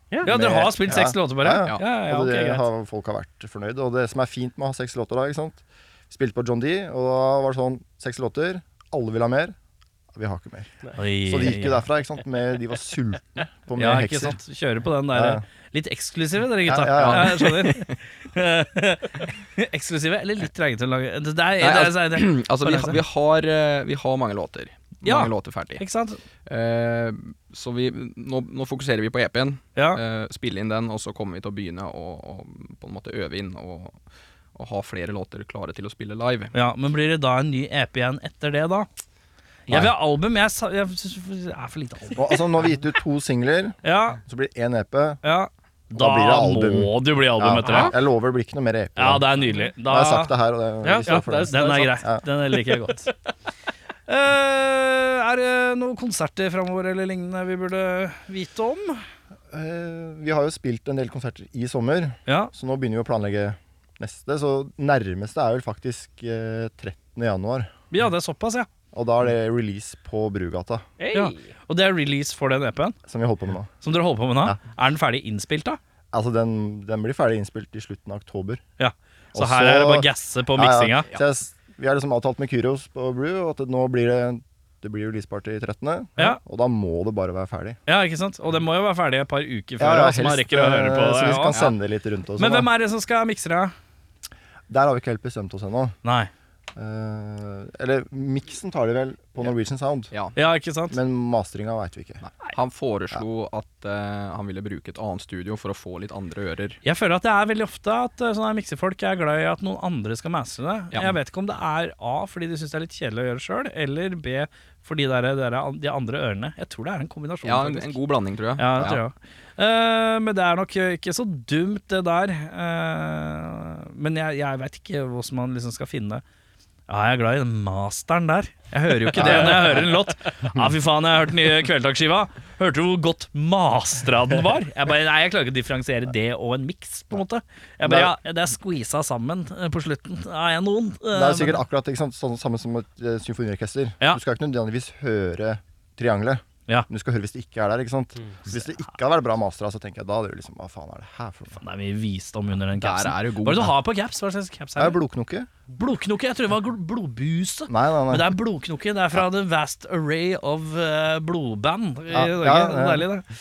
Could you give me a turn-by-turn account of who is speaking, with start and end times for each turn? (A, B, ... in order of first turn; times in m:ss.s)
0:00.2-0:09.6 A
0:00.2-0:02.7 B
0:10.1-0:14.4 A
0:11.0-0:11.8 B
0:13.8-0:23.0 B
0:15.1-0:15.4 A
0:16.7-0:17.4 A
0:17.0-0:18.0 C
0:21.6-0:25.8 C
0:25.0-0:26.2 B
0:26.5-0:34.0 C
0:29.8-0:30.0 B
0:34.6-0:36.5 C
0:36.5-0:38.9 B
0:39.7-0:42.4 B
0:39.7-0:39.9 A
0:42.2-0:45.2 A
0:43.8-0:44.2 B
0:45.2-0:48.0 B
0:45.9-0:52.2 A
0:47.7-0:47.9 D
0:49.0-0:50.3 B
0:50.8-0:52.0 D
0:51.0-0:53.1 B
0:54.1-0:59.0 B
0:59.5-1:07.7 A
1:02.3-1:02.5 B
1:07.9-1:08.7 B
1:08.9-1:10.9 A
1:11.0-1:11.5 D
1:11.1-1:13.0 B
1:13.1-1:13.7 A
1:13.8-1:15.8 B
1:16.1-1:18.6 A
1:18.8-1:21.1 B
1:19.3-1:27.8 A
1:27.9-1:31.6 B
1:29.8-1:32.7 A
1:32.4-1:33.7 B
1:34.7-1:36.0 A
1:36.0-1:36.3 B
1:36.8-1:40.1 A
1:40.4-1:41.0 B
1:40.9-1:42.2 A
1:42.2-1:46.8 C
1:46.8-1:58.0 B
1:57.4-1:59.0 C
1:58.6-2:06.2 B
2:06.9-2:21.6 B
2:08.7-2:09.9 C
2:09.2-2:09.5 A
2:17.8-2:18.1 A
2:21.1-2:31.6 A
2:31.5-2:35.0 B
2:32.8-2:33.7 C
2:34.8-2:35.5 A
2:35.8-2:43.3 B
2:37.7-2:38.4 A
2:42.1-2:43.1 A